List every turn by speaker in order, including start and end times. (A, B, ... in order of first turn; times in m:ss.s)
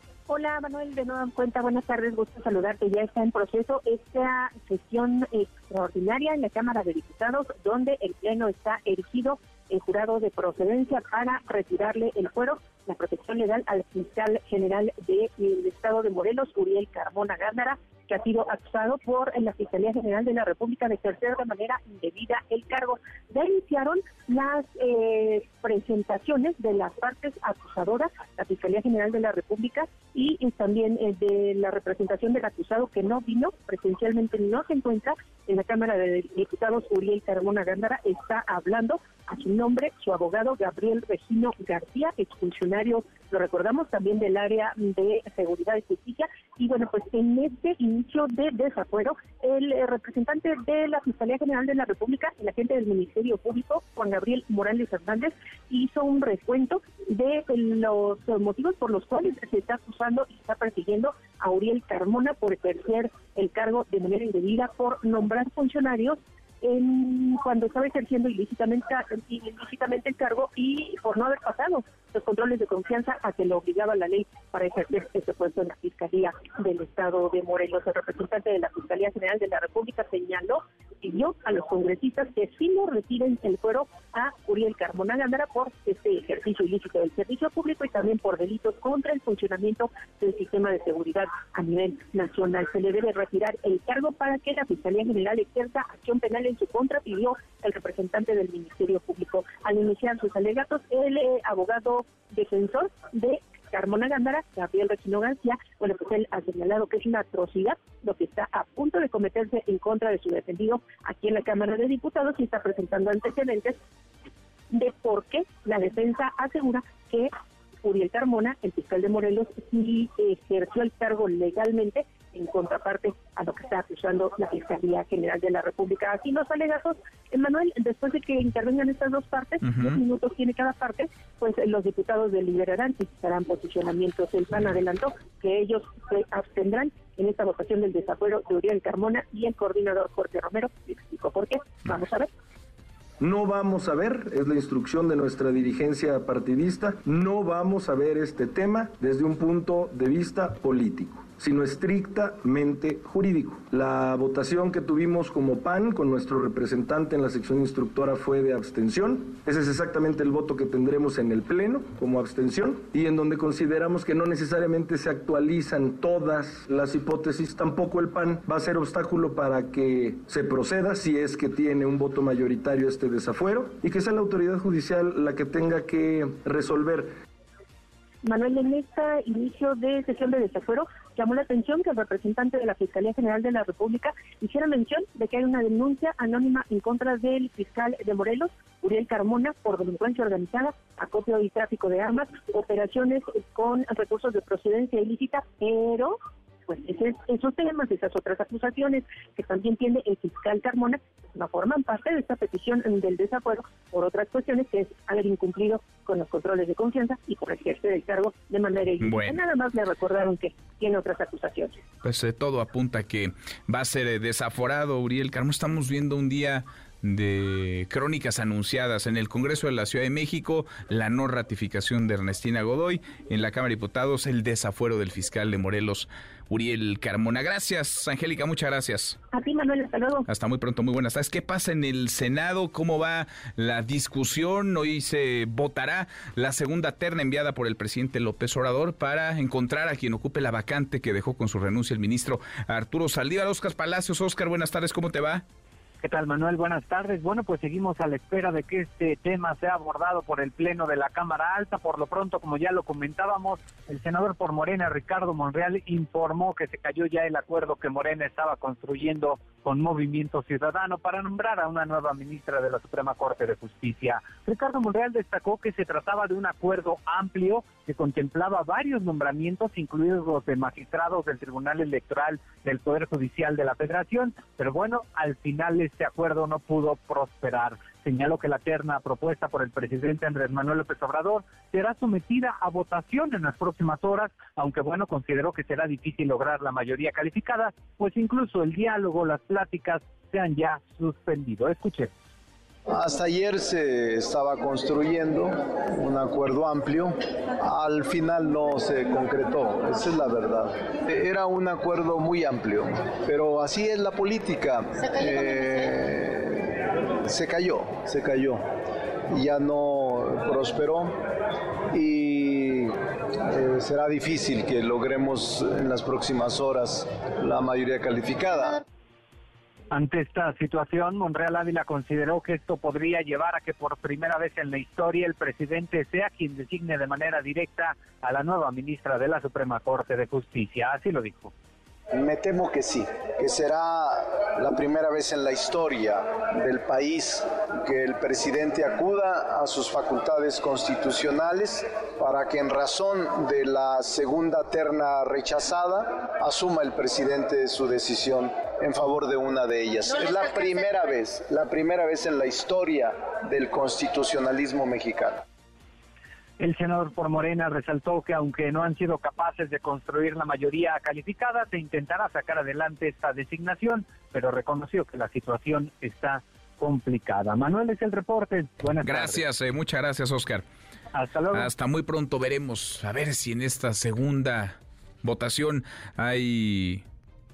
0:00.3-1:53.8 A
1:54.7-1:57.3 A
1:57.8-2:22.3 A
2:09.6-2:10.0 B
2:23.2-2:57.1 C
2:58.2-3:31.8 A
3:29.0-3:29.4 B
3:32.0-3:49.2 B
3:49.3-3:50.3 A
3:50.3-4:05.4 B
4:06.0-4:52.1 D
4:52.9-5:06.7 E
5:07.2-5:08.6 E
5:09.3-5:11.2 E
5:11.9-5:18.8 E
5:19.9-5:31.5 D
5:32.1-5:55.4 E
5:56.6-6:09.4 D
6:09.0-6:10.6 B
6:11.1-6:11.7 D
6:11.5-6:17.0 B